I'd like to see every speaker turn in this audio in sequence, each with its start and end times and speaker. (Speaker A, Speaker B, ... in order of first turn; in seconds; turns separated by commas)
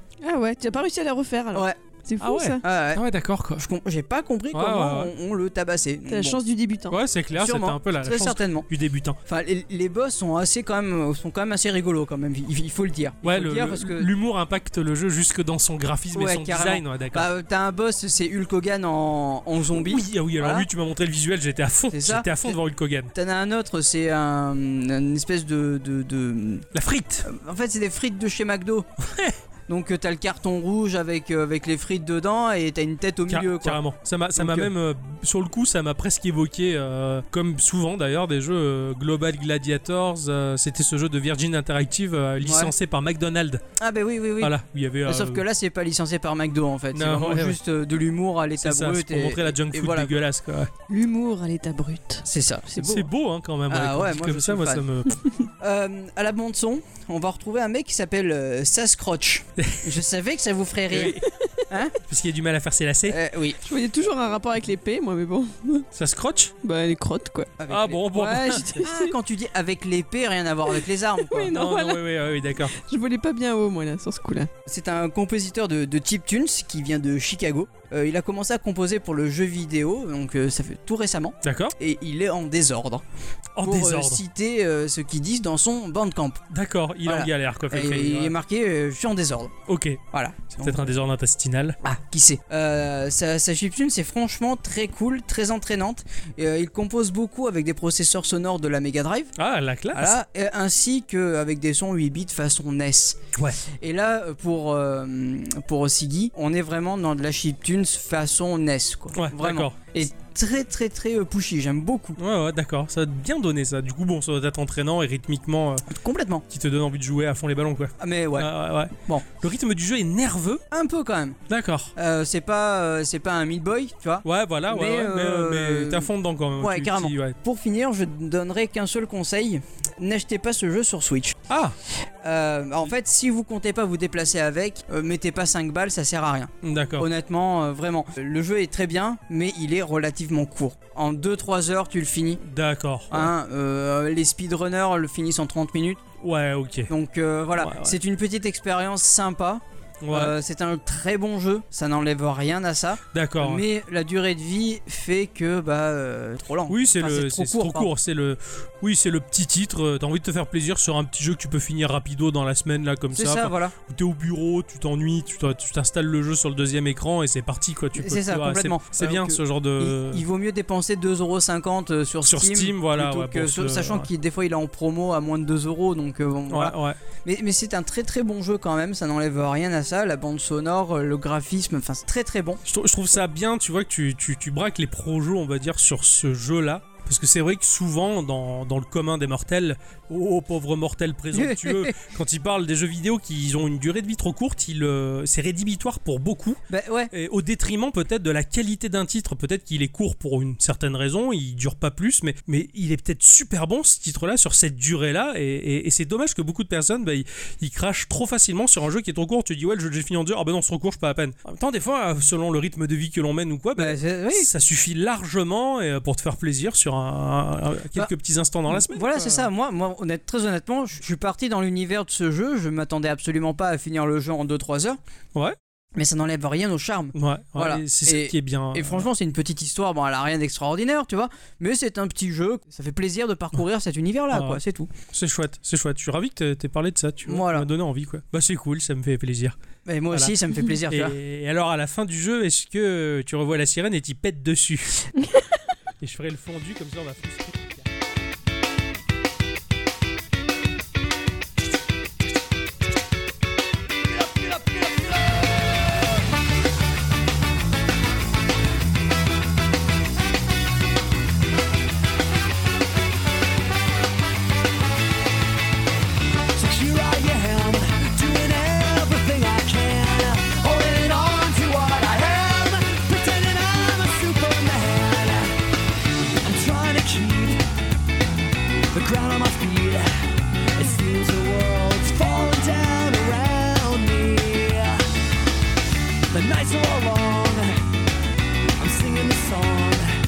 Speaker A: 0.2-2.6, Speaker B: 1.5-1.8, Speaker C: 2.2-3.7, Speaker B: 2.6-3.0, Speaker B: 3.6-6.4, Speaker C: 4.5-5.1, Speaker A: 6.1-7.0, Speaker C: 6.9-9.2, Speaker B: 7.4-8.7, Speaker B: 9.3-14.1, Speaker C: 13.2-17.3, Speaker B: 16.1-20.7, Speaker C: 19.8-23.1, Speaker B: 21.9-22.6, Speaker B: 23.1-26.7, Speaker C: 26.7-27.3, Speaker B: 27.2-28.9, Speaker C: 29.0-29.4, Speaker B: 29.7-33.8, Speaker C: 33.3-43.6, Speaker B: 34.4-34.7, Speaker B: 42.4-42.7, Speaker B: 43.8-44.5, Speaker C: 44.4-45.4, Speaker B: 45.1-50.2, Speaker C: 46.9-47.6, Speaker C: 48.6-50.7, Speaker A: 50.9-52.2, Speaker B: 52.2-53.1, Speaker C: 52.8-55.2, Speaker B: 53.7-54.9, Speaker B: 55.6-61.2, Speaker C: 59.6-60.0, Speaker C: 60.9-61.2, Speaker B: 61.7-62.0, Speaker C: 62.1-63.2, Speaker B: 63.1-63.6, Speaker A: 63.6-65.9, Speaker C: 66.0-66.5, Speaker A: 66.6-67.5, Speaker B: 67.6-71.5, Speaker C: 67.7-68.8, Speaker A: 68.5-69.1, Speaker A: 71.3-72.0, Speaker C: 71.5-72.7, Speaker A: 72.7-74.5, Speaker B: 74.7-83.0, Speaker C: 81.4-81.7, Speaker C: 83.6-84.2, Speaker B: 83.6-86.4, Speaker C: 86.5-88.3, Speaker B: 87.0-89.5, Speaker C: 89.7-90.0, Speaker B: 90.1-90.9, Speaker C: 90.6-91.8, Speaker B: 91.8-99.3, Speaker C: 99.4-100.2, Speaker B: 99.9-112.2, Speaker C: 109.2-109.8, Speaker C: 112.2-115.8, Speaker B: 115.9-116.4, Speaker C: 116.5-120.6, Speaker B: 118.0-118.5, Speaker B: 120.7-121.4, Speaker C: 121.5-121.9, Speaker B: 122.0-131.4, Speaker C: 124.2-127.4, Speaker C: 131.5-131.7, Speaker B: 132.2-142.4, Speaker C: 136.6-137.1, Speaker C: 142.4-143.3, Speaker B: 143.1-146.0, Speaker C: 146.2-146.9, Speaker B: 146.9-157.9, Speaker C: 147.6-148.0, Speaker C: 150.0-150.4, Speaker C: 153.1-153.6, Speaker C: 156.7-170.2, Speaker B: 163.1-163.8, Speaker B: 168.0-182.6, Speaker C: 172.3-174.1, Speaker C: 176.5-177.0, Speaker C: 182.7-196.6, Speaker B: 191.3-191.9, Speaker B: 196.7-197.1, Speaker C: 197.1-219.5, Speaker B: 213.8-214.5, Speaker B: 218.7-225.0, Speaker B: 226.0-234.9, Speaker C: 227.2-229.1, Speaker C: 234.3-234.6, Speaker C: 235.1-239.6, Speaker B: 237.2-237.7, Speaker B: 239.9-241.2, Speaker C: 240.9-245.1, Speaker C: 246.0-247.9, Speaker D: 266.6-275.6, Speaker D: 276.4-277.6, Speaker D: 278.9-280.1, Speaker D: 280.8-285.1, Speaker D: 286.3-287.8, Speaker D: 288.8-290.1